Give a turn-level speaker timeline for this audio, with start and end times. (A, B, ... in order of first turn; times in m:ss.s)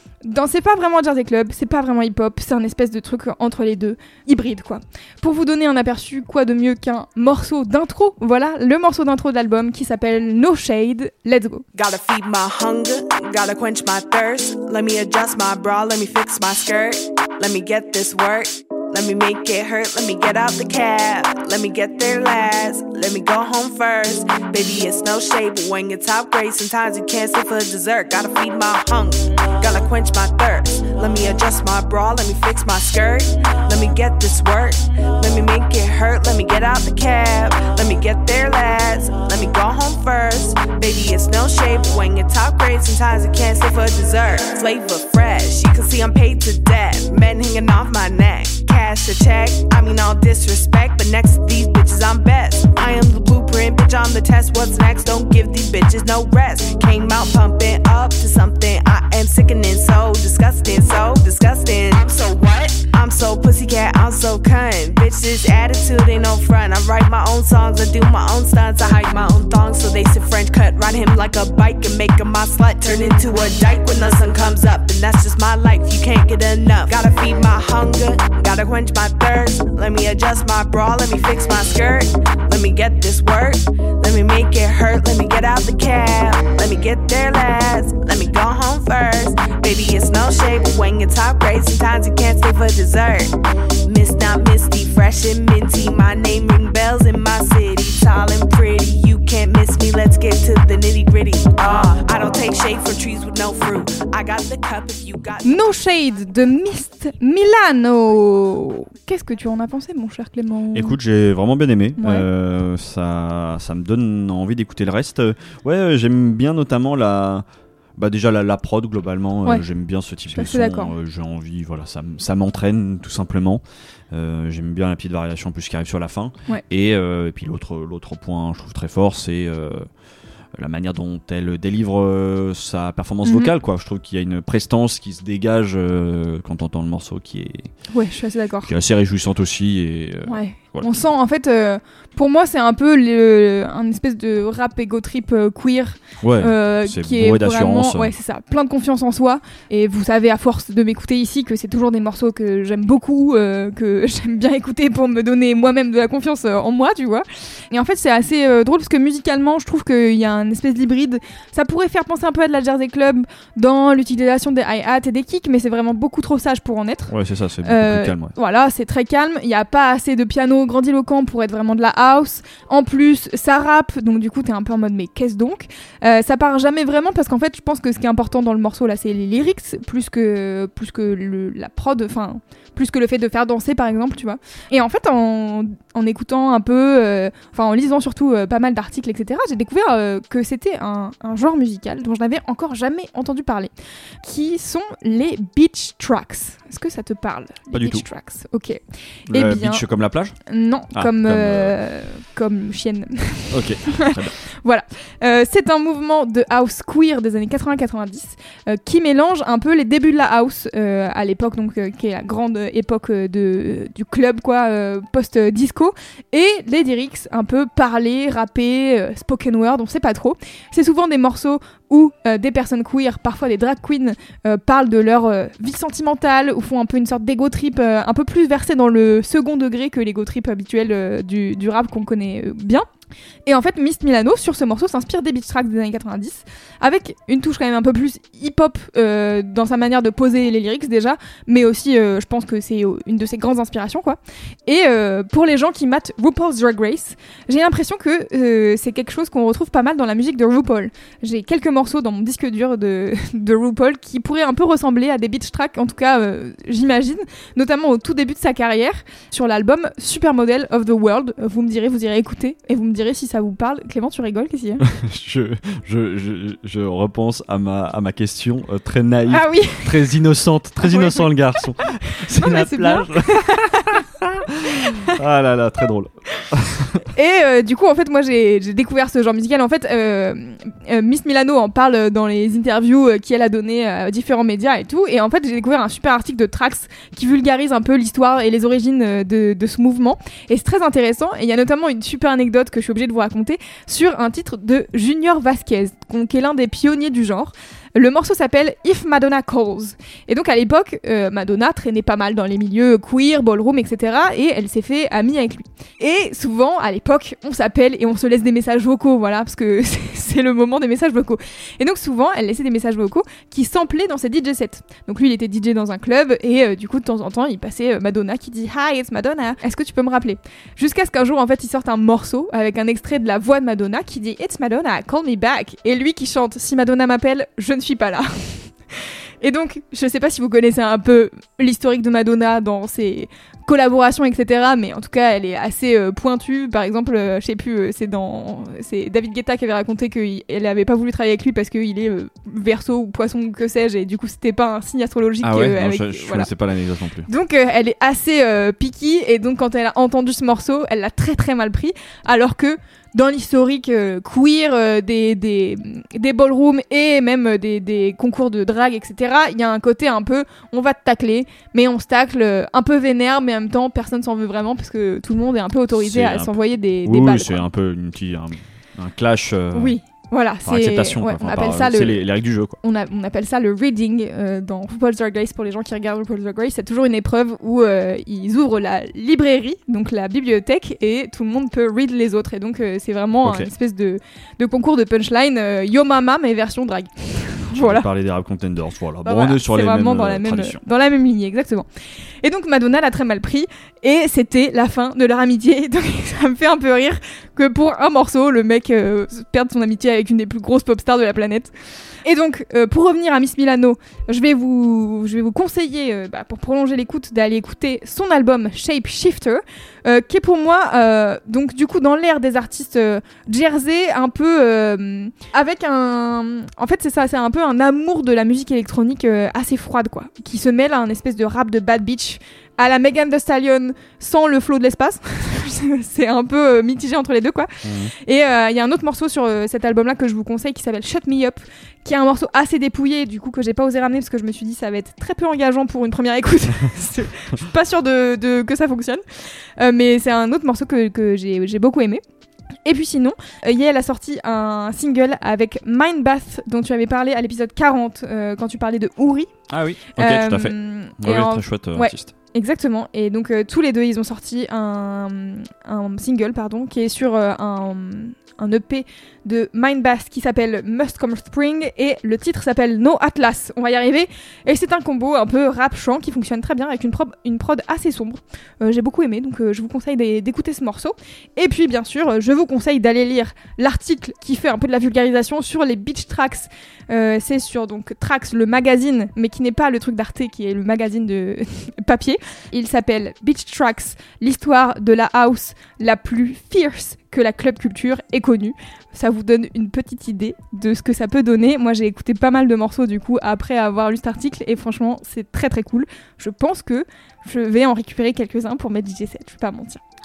0:00.2-0:11.6 A
0:11.7-1:33.3 B
1:33.9-1:45.7 B
1:45.4-1:51.0 A
1:50.7-1:57.5 C
1:52.0-1:52.3 A
1:58.0-2:09.9 C
2:00.3-2:00.9 A
2:10.6-2:17.7 C
2:13.2-2:13.5 A
2:17.9-2:18.7 A
2:18.6-2:20.9 C
2:20.3-2:47.1 A
2:26.2-2:28.1 C
2:47.1-2:48.3 C
2:47.6-3:13.7 A
3:14.2-3:19.8 A
3:17.7-3:18.0 C
3:19.3-3:20.4 C
3:20.5-3:52.9 A
3:20.9-3:21.7 C
3:23.5-3:24.4 C
3:53.5-4:24.8 A
4:24.8-4:37.0 C
4:29.3-4:30.0 A
4:30.8-4:31.3 A
4:32.1-4:34.0 A
4:34.8-4:35.1 A
4:37.1-5:46.5 A
5:45.4-5:47.3 C
5:47.3-6:07.6 A
6:06.0-6:06.5 C
6:07.0-6:10.0 C
6:09.7-6:12.2 A
6:10.6-6:12.8 C
6:12.8-6:28.1 A
6:23.4-6:23.7 C
6:27.7-6:30.8 C
6:29.3-6:31.9 A
6:32.4-6:41.7 A
6:42.2-7:19.2 A
7:07.8-7:08.1 C
7:19.8-7:22.2 A
7:22.9-7:29.5 A
7:29.7-7:32.3 C
7:30.1-8:20.0 A